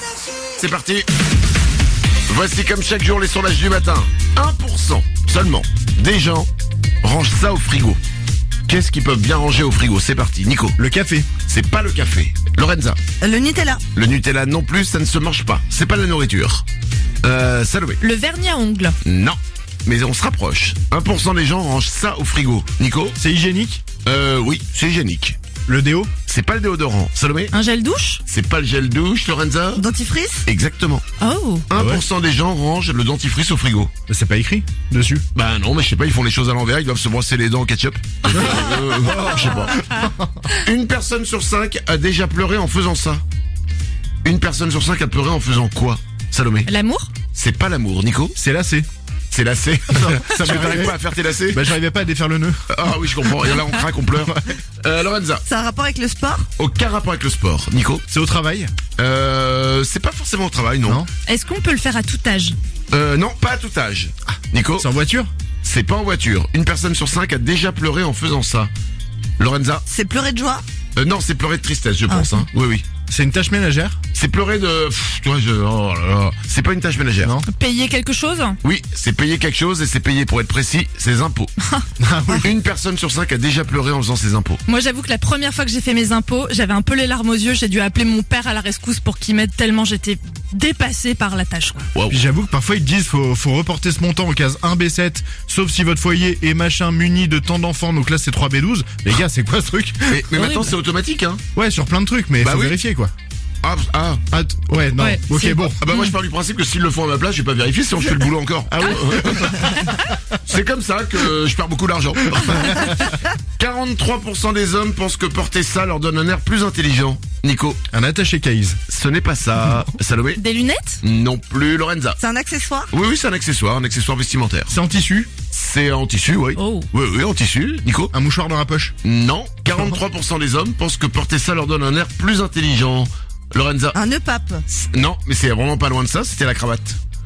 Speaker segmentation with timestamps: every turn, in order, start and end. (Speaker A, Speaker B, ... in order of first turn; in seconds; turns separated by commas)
Speaker A: 0.6-1.1, Speaker A: 2.3-6.5, Speaker A: 7.0-8.0, Speaker A: 8.7-10.8, Speaker B: 10.8-11.3, Speaker A: 11.4-13.0, Speaker C: 13.2-13.8, Speaker A: 13.9-16.6, Speaker A: 17.2-18.0, Speaker D: 18.0-18.9, Speaker A: 19.0-23.2, Speaker B: 23.1-23.8, Speaker A: 24.0-25.4, Speaker B: 25.6-26.1, Speaker A: 26.2-27.5, Speaker D: 27.5-28.2, Speaker A: 28.2-29.9, Speaker C: 29.8-30.4, Speaker A: 30.4-31.0, Speaker D: 31.2-31.6, Speaker A: 31.7-33.9, Speaker B: 31.7-32.0, Speaker B: 34.1-35.2, Speaker A: 35.3-39.8, Speaker B: 38.3-40.0, Speaker A: 40.5-43.2, Speaker A: 44.2-46.7, Speaker D: 46.6-47.1, Speaker A: 47.3-48.4, Speaker B: 48.4-48.9, Speaker A: 49.3-51.7, Speaker B: 49.9-53.3, Speaker A: 52.7-55.5, Speaker B: 54.2-54.5, Speaker C: 55.5-56.4, Speaker A: 56.5-58.0, Speaker B: 58.1-58.7, Speaker A: 59.0-61.0, Speaker B: 60.8-61.1, Speaker D: 61.3-62.5, Speaker A: 62.9-64.9, Speaker B: 64.3-65.3, Speaker A: 65.6-68.7, Speaker A: 69.4-69.8, Speaker C: 69.9-70.6, Speaker A: 71.0-72.8, Speaker B: 73.1-74.0, Speaker A: 74.1-77.3, Speaker B: 77.2-77.5, Speaker D: 77.5-78.6, Speaker A: 78.6-81.5, Speaker B: 82.0-82.5, Speaker A: 82.4-84.6, Speaker D: 84.7-91.9, Speaker A: 91.9-92.2, Speaker B: 92.1-100.5, Speaker A: 100.1-101.4, Speaker B: 101.5-103.1, Speaker A: 102.4-102.8, Speaker A: 103.6-104.2, Speaker B: 104.3-105.8, Speaker D: 105.0-106.1, Speaker A: 105.8-109.6, Speaker B: 108.7-110.0, Speaker A: 110.5-117.8, Speaker B: 112.5-112.8, Speaker B: 117.9-118.8, Speaker A: 118.9-120.4, Speaker D: 120.4-121.0, Speaker A: 121.0-122.2, Speaker C: 122.2-122.8, Speaker A: 122.9-124.8, Speaker B: 124.7-125.3, Speaker A: 125.4-128.1, Speaker D: 126.5-126.9, Speaker B: 128.1-128.9, Speaker A: 129.0-134.0, Speaker C: 133.9-134.6, Speaker A: 134.7-137.0